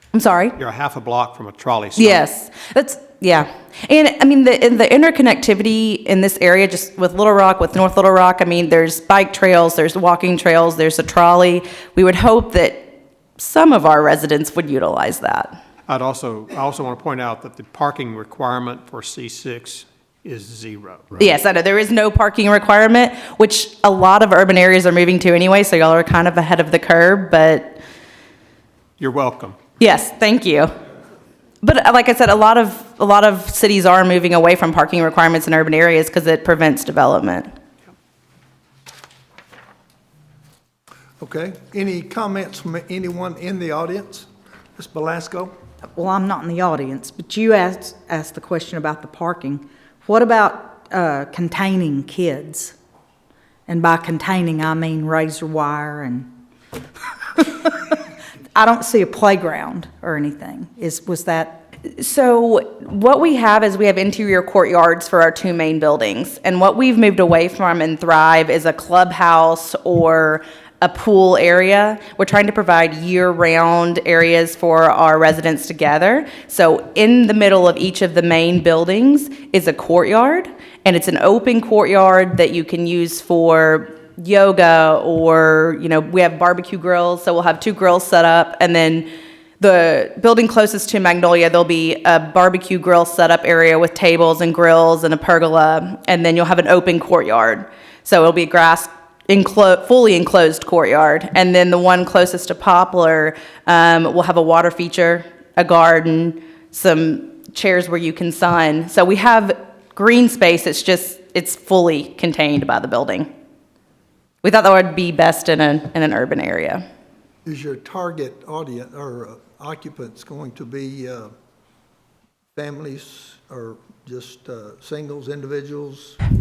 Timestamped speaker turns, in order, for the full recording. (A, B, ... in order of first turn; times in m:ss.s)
0:00.1-0:00.6 A
0:00.6-0:02.2 B
0:02.0-0:15.6 A
0:15.9-0:21.1 B
0:21.2-0:27.8 A
0:29.0-0:29.6 B
0:29.8-0:30.7 A
0:31.6-0:37.5 A
0:41.2-0:45.5 C
0:45.9-0:52.7 D
0:53.7-0:56.3 D
0:57.4-0:58.0 D
0:58.5-1:01.7 D
1:01.8-1:29.1 A
1:29.6-1:53.3 A
1:54.4-1:56.8 A
1:57.4-2:01.3 C
2:02.5-2:06.2 C